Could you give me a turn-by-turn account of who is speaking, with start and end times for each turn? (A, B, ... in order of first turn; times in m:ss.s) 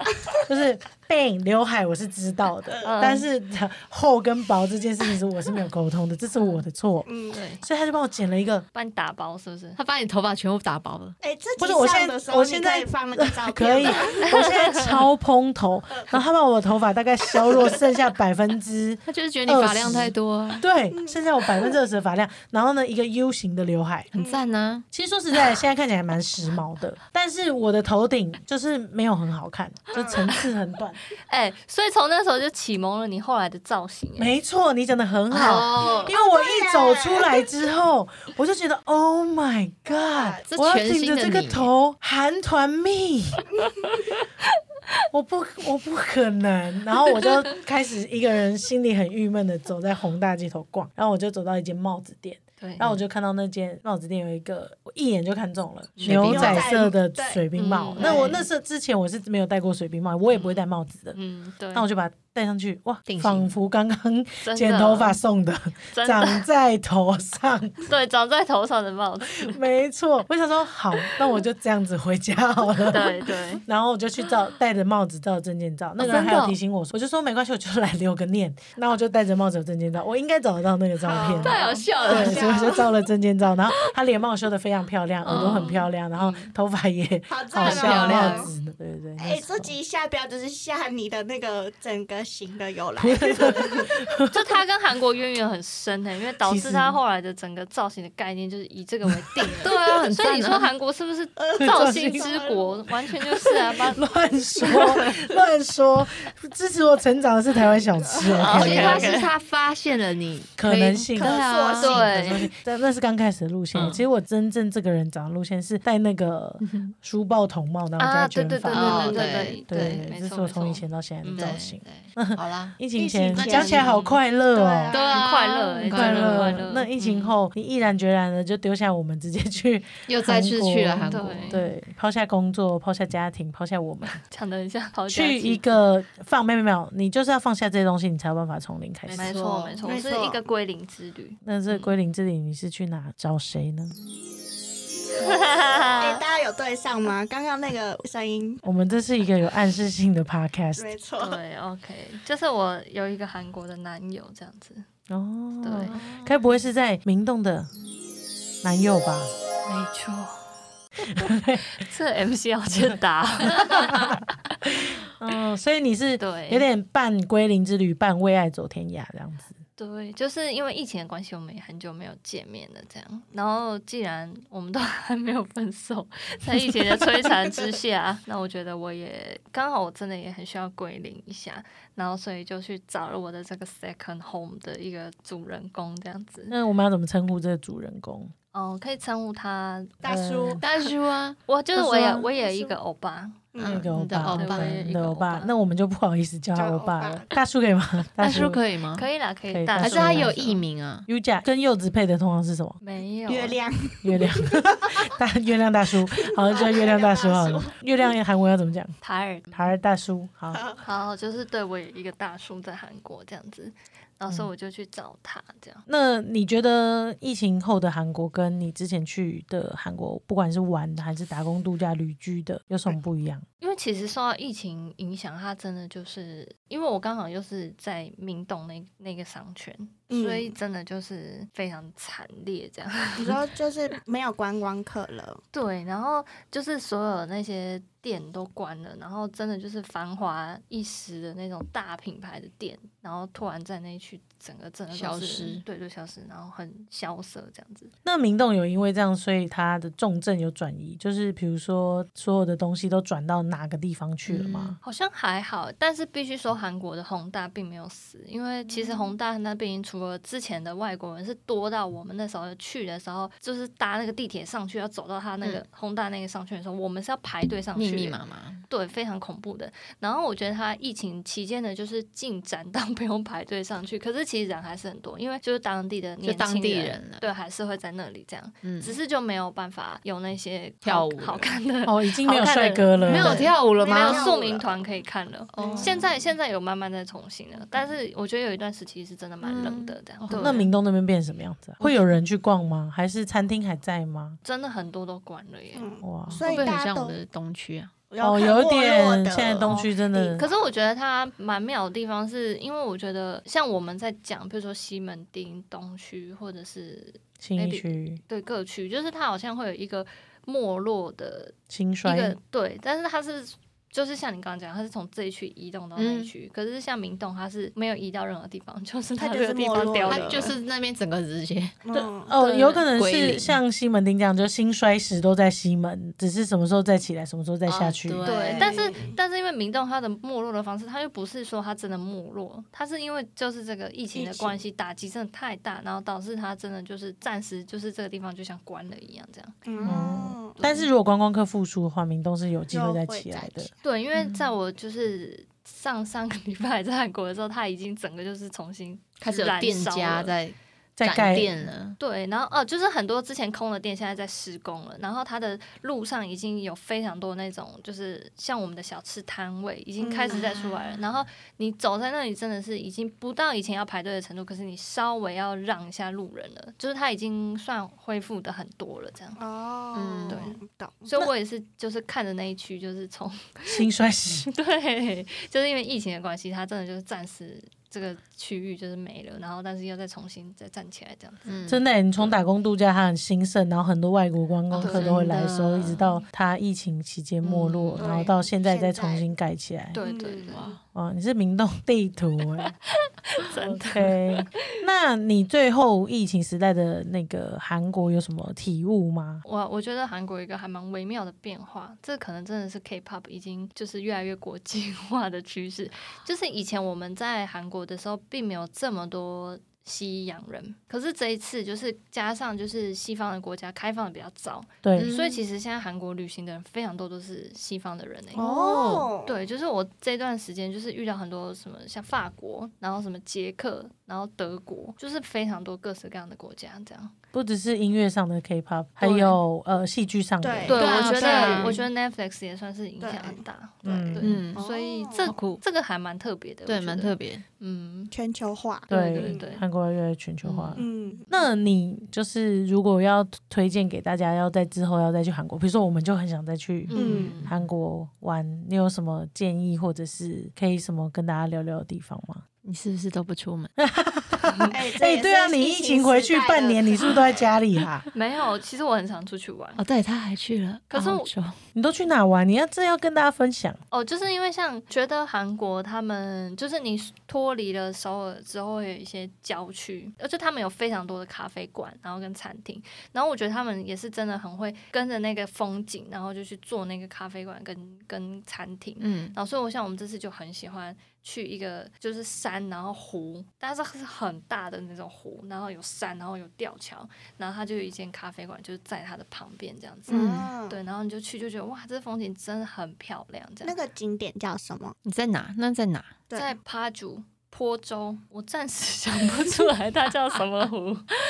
0:00.4-0:07.1 A
0:02.7-0:03.1 B
0:02.8-0:03.2 C
0:07.1-0:07.4 B
0:07.3-0:07.6 C
0:07.6-0:08.7 A
0:08.8-0:09.8 C
0:09.8-0:11.2 D
0:11.2-0:14.3 B
0:11.6-0:24.1 A
0:14.2-0:15.0 C
0:17.5-0:17.8 B
0:19.1-0:20.6 D
0:20.9-0:21.7 B
0:24.1-0:24.8 D
0:24.2-0:24.4 B
0:24.9-0:31.0 A
0:29.9-0:30.3 B
0:31.3-0:34.4 C
0:34.2-0:43.5 A
0:35.3-0:36.1 D
0:35.5-0:37.5 B
0:39.9-0:40.4 B
0:40.5-0:41.7 D
0:45.1-1:01.2 A
0:52.6-0:53.0 C
0:56.0-0:56.3 C
0:56.0-0:56.7 D
0:56.2-0:57.4 B
0:57.6-0:58.4 C
0:58.0-0:58.4 B
1:00.3-1:00.6 C
1:01.1-1:01.9 C
1:01.7-1:07.8 A
1:03.1-1:03.5 D
1:04.4-1:05.2 C
1:05.9-1:06.4 C
1:07.9-1:09.6 C
1:09.4-1:29.8 A
1:12.9-1:13.6 C
1:16.0-1:16.6 C
1:21.0-1:22.9 B
1:21.4-1:22.7 D
1:25.2-1:25.8 D
1:25.3-1:26.5 C
1:27.3-1:28.5 B
1:27.6-1:28.5 D
1:27.7-1:28.3 C
1:29.2-1:34.0 B
1:33.0-1:34.4 A
1:34.3-1:44.0 C
1:36.4-1:37.0 A
1:39.1-1:39.4 A
1:39.6-1:40.7 D
1:41.4-1:42.9 B
1:41.6-1:42.3 A
1:43.4-1:49.1 A
1:44.7-1:45.0 C
1:48.0-1:49.0 B
1:48.4-1:49.3 C
1:48.5-1:52.0 D
1:50.6-2:04.9 A
1:51.2-1:52.1 B
1:51.8-1:52.5 C
1:53.7-1:54.0 D
1:56.6-1:56.9 D
1:58.0-2:01.6 C
1:58.7-2:00.0 D
2:01.4-2:02.8 D
2:03.0-2:04.0 B
2:03.3-2:04.2 D
2:04.5-2:05.3 B
2:04.9-2:07.3 D
2:05.0-2:06.9 C
2:05.9-2:14.2 A
2:10.1-2:11.6 D
2:11.1-2:11.6 C
2:14.1-2:15.8 C
2:15.1-2:19.3 A
2:19.1-2:19.8 D
2:19.1-2:21.9 C
2:19.8-2:20.4 B
2:21.4-2:23.9 A
2:25.2-2:26.2 C
2:26.0-2:28.6 B
2:28.6-2:30.9 A
2:30.8-2:31.4 B
2:31.2-2:34.9 C
2:35.1-2:37.7 A
2:35.6-2:36.0 C
2:35.9-2:36.2 D
2:38.6-2:39.3 A
2:39.6-2:40.4 C
2:41.0-2:41.7 A
2:41.7-2:44.2 C
2:42.7-2:43.0 A
2:43.6-2:49.6 A
2:46.2-2:46.7 C
2:49.8-3:06.6 C
3:06.5-3:08.3 A
3:08.5-3:10.0 C
3:10.0-3:10.6 B
3:10.0-3:10.6 A
3:10.6-3:12.3 D
3:11.5-3:13.5 C
3:12.4-3:12.8 B
3:13.5-3:13.9 B
3:13.6-3:14.8 D
3:13.6-3:18.6 A
3:14.3-3:15.5 C
3:16.6-3:17.3 B
3:18.2-3:19.1 D
3:18.9-3:20.6 C
3:19.5-3:20.4 A
3:19.8-3:21.1 D
3:21.1-3:22.8 A
3:22.8-3:23.6 C
3:23.3-3:25.1 B
3:24.0-3:29.0 A
3:26.2-3:27.8 B
3:29.0-3:29.7 C
3:29.5-3:30.6 A
3:30.5-3:30.8 B
3:30.8-3:35.8 C
3:35.9-3:43.4 A
3:43.6-3:53.4 C
3:50.1-3:50.6 B
3:53.2-3:55.4 B
3:55.5-4:07.9 C
4:04.9-4:05.6 D
4:08.0-4:14.8 A
4:14.3-4:14.8 D
4:14.8-4:50.7 C
4:27.8-4:28.7 D
4:36.2-4:37.3 D
4:38.6-4:38.9 D
4:40.8-4:41.6 D
4:41.8-4:43.5 A
4:43.0-4:44.3 D
4:43.8-4:44.9 B
4:45.5-4:46.1 D
4:45.6-4:46.1 B
4:49.4-4:50.6 D
4:50.3-4:54.4 A
4:54.4-4:56.8 C
4:55.8-4:57.2 B
4:56.0-4:56.4 A
4:56.4-4:57.9 D
4:58.1-5:00.6 B
4:58.2-5:00.4 A
4:59.6-5:20.5 C
5:07.4-5:08.2 A
5:11.7-5:12.4 A
5:16.0-5:16.3 D
5:19.2-5:20.6 B
5:19.7-5:21.8 D
5:21.8-5:22.3 B
5:21.9-5:28.2 A
5:22.4-5:23.6 D
5:27.7-5:28.9 D
5:28.2-5:39.9 C
5:28.3-5:29.2 B
5:34.1-5:34.6 B
5:39.7-5:40.6 B
5:39.9-5:43.7 A
5:42.7-5:43.8 B
5:43.8-5:50.4 C
5:49.2-5:52.0 D
5:51.0-5:51.5 A
5:52.0-6:09.4 C
6:00.0-6:00.6 B
6:00.3-6:00.7 D
6:09.4-6:11.3 B
6:09.9-6:10.5 D
6:10.3-6:13.9 C
6:13.7-6:14.5 A
6:14.5-6:21.6 C
6:21.5-6:21.8 D
6:21.7-6:30.0 A
6:24.7-6:26.1 D
6:24.8-6:25.2 C
6:27.4-6:28.1 D
6:28.0-6:29.3 B
6:29.9-6:30.8 C
6:30.0-6:30.6 B
6:30.5-6:30.8 D
6:30.9-6:32.8 A
6:33.1-6:34.8 C
6:33.5-6:39.4 A
6:39.4-6:58.5 C
6:54.8-6:55.1 A
6:55.0-6:55.4 D
6:58.3-6:59.4 B
6:58.4-6:59.1 D
6:59.2-7:07.2 C
7:07.3-7:10.8 A
7:09.0-7:09.4 C
7:10.4-7:11.9 B
7:10.7-7:18.1 C
7:10.8-7:11.8 D
7:13.0-7:13.4 B
7:13.8-7:14.4 A
7:14.2-7:14.6 D
7:14.6-7:15.3 B
7:15.2-7:15.6 D
7:16.7-7:17.4 D
7:18.1-7:19.5 B
7:18.9-7:19.6 C
7:18.9-7:32.4 A
7:20.4-7:20.8 D
7:20.8-7:21.3 B
7:26.9-7:27.5 C
7:27.0-7:27.5 D
7:27.0-7:27.4 B
7:32.6-7:33.7 D
7:33.8-7:38.1 A
7:34.7-7:37.5 B
7:38.1-7:39.8 C
7:39.8-7:41.6 D
7:40.9-7:41.3 C
7:41.8-7:43.8 A
7:43.9-8:13.8 C
7:59.0-7:59.4 D
8:10.1-8:10.5 D
8:10.1-8:10.8 B
8:13.6-8:15.0 B
8:15.0-8:16.1 D
8:16.3-8:21.1 C